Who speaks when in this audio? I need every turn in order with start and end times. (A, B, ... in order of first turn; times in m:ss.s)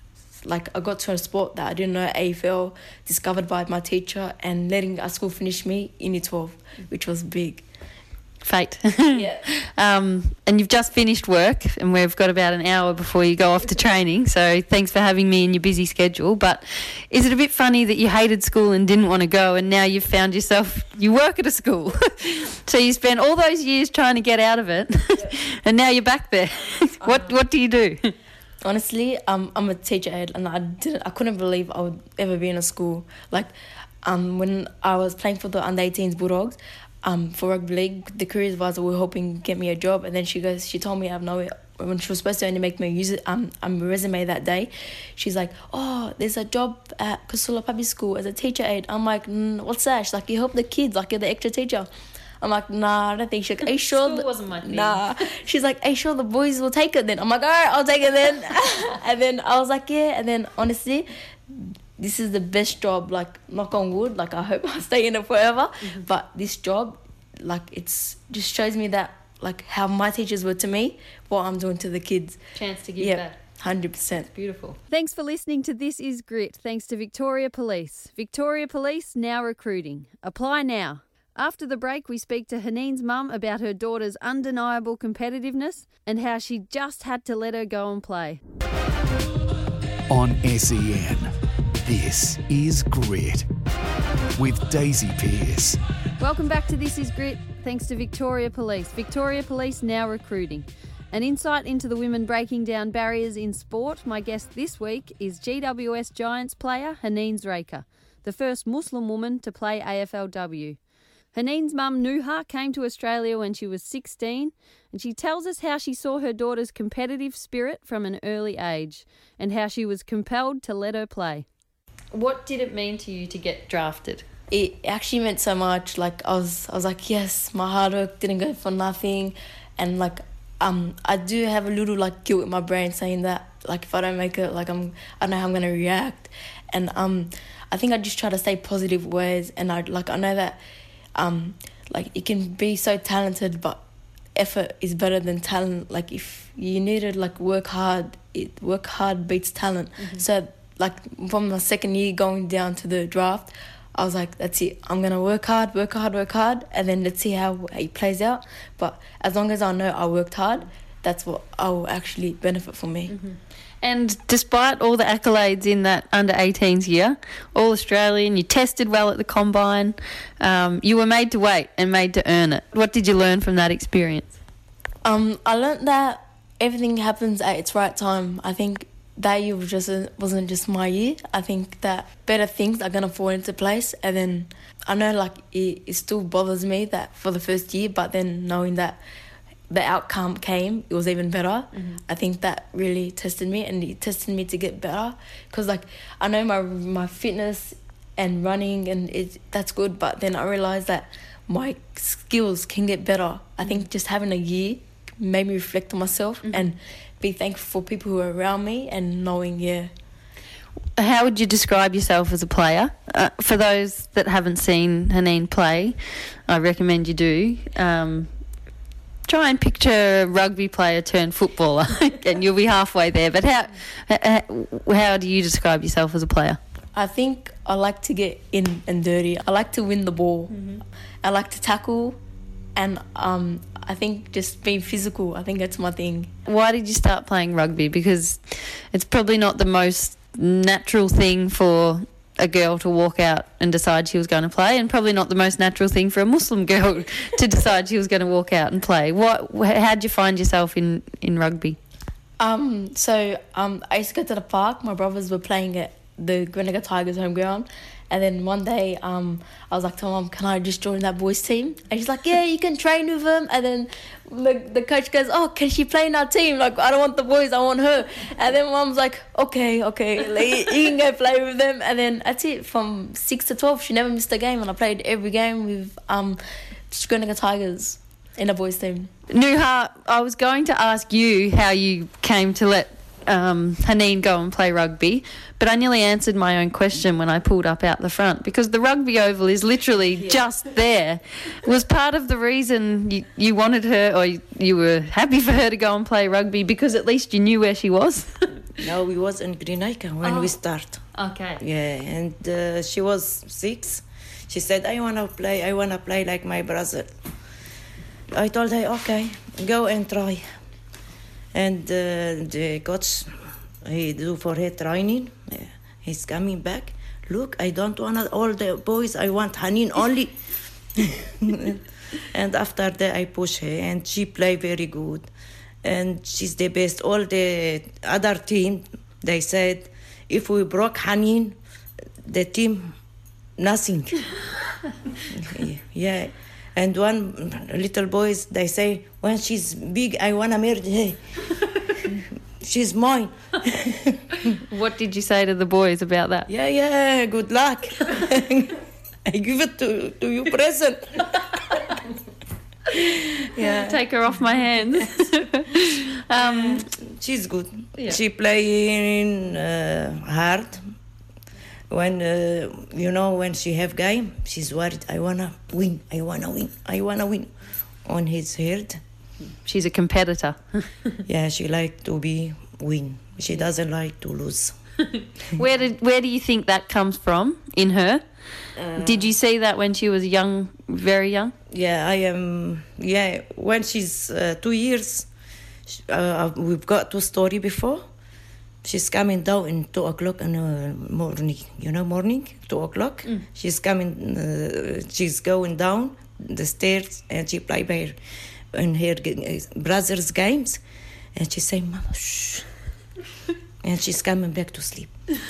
0:00.4-0:07.6 A
0:08.4-0:28.1 B
0:09.1-0:09.4 A
0:27.0-0:27.4 A
0:28.6-0:51.9 A
0:52.4-1:12.4 A
0:53.8-0:55.0 B
1:12.6-1:13.4 B
1:13.0-1:14.3 A
1:14.4-1:28.4 B
1:30.1-1:31.3 C
1:31.8-1:33.5 C
1:34.4-1:35.8 C
1:36.2-1:50.8 B
1:51.3-2:01.5 B
2:02.1-2:04.2 B
2:04.5-2:20.6 A
2:21.2-2:23.8 A
2:24.4-2:43.2 A
2:30.0-2:30.2 B
2:43.1-2:54.4 B
2:55.0-3:09.0 A
3:09.7-3:29.9 A
3:11.7-3:12.0 B
3:26.4-3:26.7 B
3:31.0-3:38.3 B
3:39.3-3:46.6 B
3:46.9-3:50.6 A
3:50.5-3:50.8 B
3:51.2-3:52.2 A
3:52.8-3:56.3 A
3:56.5-4:11.8 B
4:12.4-4:39.1 A
4:39.3-4:58.5 B
4:58.8-5:07.1 D
5:00.2-5:01.6 B
5:08.3-5:10.5 D
5:11.5-5:20.4 D
5:21.0-5:21.8 D
5:22.3-5:25.3 D
5:25.8-5:31.6 D
5:32.2-5:33.0 D
5:33.6-5:34.3 D
5:35.3-5:41.2 D
5:42.6-5:44.6 D
5:44.7-5:46.5 B
5:46.5-5:51.8 D
5:52.9-5:54.0 D
5:53.6-5:56.9 B
5:56.4-6:00.9 D
6:01.9-6:09.0 D
6:09.5-6:11.2 B
6:11.3-6:14.8 D
6:15.6-6:18.2 B
6:18.8-6:19.3 D
6:19.0-6:21.5 B
6:21.7-6:25.3 D
6:25.9-6:28.0 D
6:28.8-6:38.2 D
6:38.7-6:40.8 D
6:41.4-6:42.7 D
6:43.8-6:45.3 D